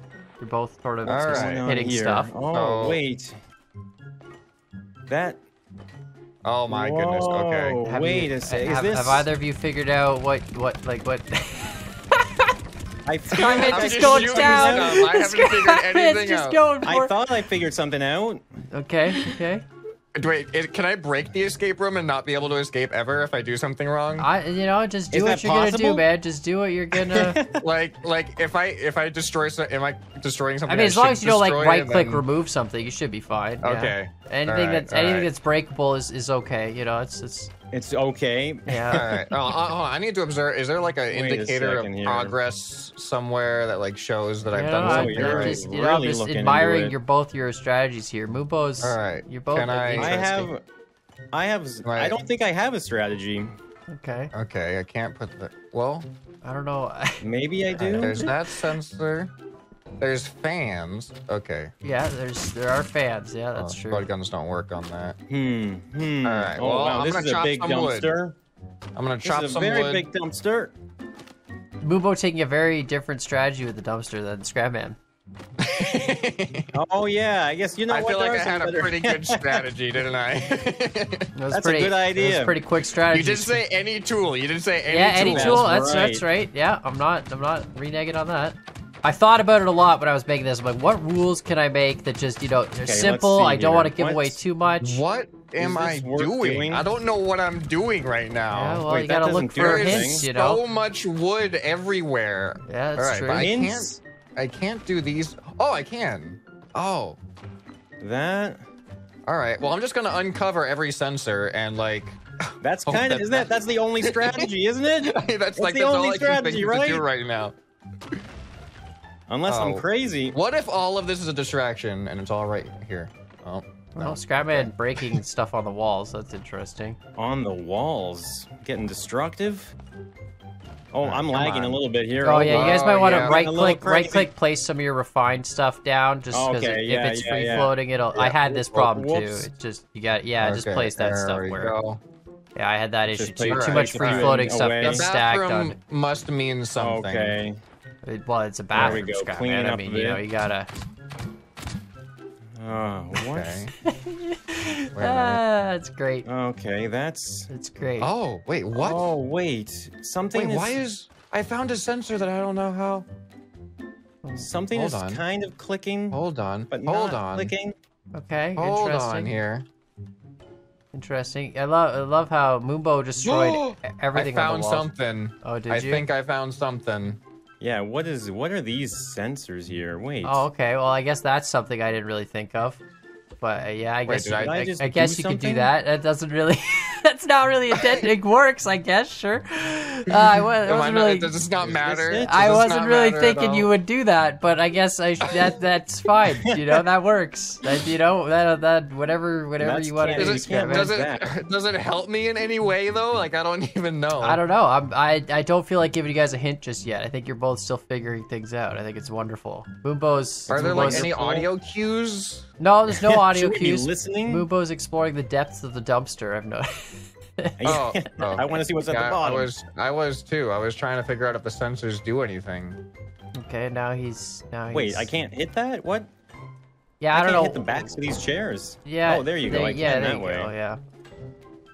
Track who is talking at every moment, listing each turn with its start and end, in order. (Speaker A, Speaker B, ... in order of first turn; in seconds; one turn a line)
Speaker A: 0.4-2.3
Speaker B: 1.1-1.7
Speaker C: 1.3-3.4
Speaker B: 2.5-3.0
Speaker C: 5.1-5.4
Speaker B: 6.4-7.8
Speaker C: 6.7-9.2
Speaker A: 7.8-12.2
Speaker C: 13.1-15.1
Speaker A: 13.3-17.1
Speaker B: 13.4-16.6
Speaker C: 16.9-18.4
Speaker A: 18.7-19.6
Speaker B: 20.1-24.3
Speaker A: 24.2-27.4
Speaker C: 25.1-26.1
Speaker C: 26.9-27.6
Speaker B: 27.6-32.2
Speaker A: 30.7-37.5
Speaker B: 33.6-35.3
Speaker C: 37.7-39.1
Speaker A: 38.7-39.1
Speaker B: 38.9-45.6
Speaker C: 41.1-42.4
Speaker A: 44.5-50.5
Speaker C: 44.8-47.0
Speaker B: 48.8-50.2
Speaker C: 50.0-50.6
Speaker C: 51.3-53.5
Speaker B: 51.8-52.2
Speaker A: 53.9-54.3
Speaker B: 54.3-56.1
Speaker A: 56.4-57.2
Speaker C: 57.2-58.2
Speaker B: 57.8-59.3
Speaker A: 57.9-58.3
Speaker B: 60.0-61.7
Speaker A: 61.8-64.1
Speaker B: 63.5-65.2
Speaker C: 65.3-68.3
Speaker B: 66.2-68.1
Speaker B: 69.0-70.0
Speaker C: 69.2-70.7
Speaker A: 71.8-75.0
Speaker B: 75.6-76.7
Speaker C: 76.7-79.6
Speaker B: 77.9-81.3
Speaker A: 81.3-83.6
Speaker C: 81.5-82.6
Speaker B: 83.1-85.7
Speaker A: 84.9-95.0
Speaker C: 85.2-86.2
Speaker C: 92.8-94.4
Speaker B: 94.8-107.2
Speaker C: 95.6-96.9
Speaker A: 98.5-100.6
Speaker C: 98.9-100.3
Speaker A: 102.6-103.5
Speaker C: 103.3-104.0
Speaker C: 108.0-108.6
Speaker B: 109.2-113.5
Speaker C: 112.6-117.0
Speaker B: 114.0-114.5
Speaker B: 115.0-117.6
Speaker C: 119.3-120.3
Speaker B: 119.5-125.2
Speaker A: 123.9-127.0
Speaker C: 127.2-129.7
Speaker C: 130.9-134.3
Speaker B: 131.0-131.8
Speaker A: 132.2-141.8
Speaker B: 132.3-133.4
Speaker C: 136.3-139.5
Speaker B: 140.4-142.0
Speaker A: 142.6-145.8
Speaker C: 143.1-145.1
Speaker B: 143.5-147.4
Speaker C: 146.8-147.6
Speaker A: 148.1-150.7
Speaker B: 148.7-149.0
Speaker C: 148.7-150.2
Speaker C: 152.6-153.6
Speaker B: 153.2-153.7
Speaker A: 153.8-156.2
Speaker B: 154.9-155.4
Speaker C: 156.2-157.5
Speaker A: 157.5-158.1
Speaker B: 158.0-159.0
Speaker C: 158.8-160.8
Speaker B: 160.3-163.1
Speaker C: 164.3-166.2
Speaker B: 164.7-165.2
Speaker B: 166.1-167.5
Speaker C: 166.7-167.7
Speaker A: 168.1-169.3
Speaker B: 168.6-169.7
Speaker A: 170.9-174.9
Speaker B: 173.2-177.2
Speaker A: 175.4-176.1
Speaker C: 177.6-180.4
Speaker A: 180.2-182.8
Speaker A: 183.4-191.3
Speaker B: 184.1-184.6
Speaker C: 184.4-185.7
Speaker B: 187.8-188.1
Speaker B: 190.1-193.7
Speaker C: 191.6-192.5
Speaker A: 192.2-200.9
Speaker C: 196.4-196.8
Speaker C: 199.6-201.3
Speaker B: 200.1-204.4
Speaker A: 204.2-211.1
Speaker C: 210.5-211.5
Speaker B: 210.5-212.4
Speaker A: 212.6-217.7
Speaker C: 212.9-214.4
Speaker C: 217.6-219.5
Speaker B: 217.7-222.8
Speaker A: 223.3-225.1
Speaker C: 224.7-226.1
Speaker A: 227.0-227.9
Speaker C: 227.1-230.5
Speaker A: 228.8-230.8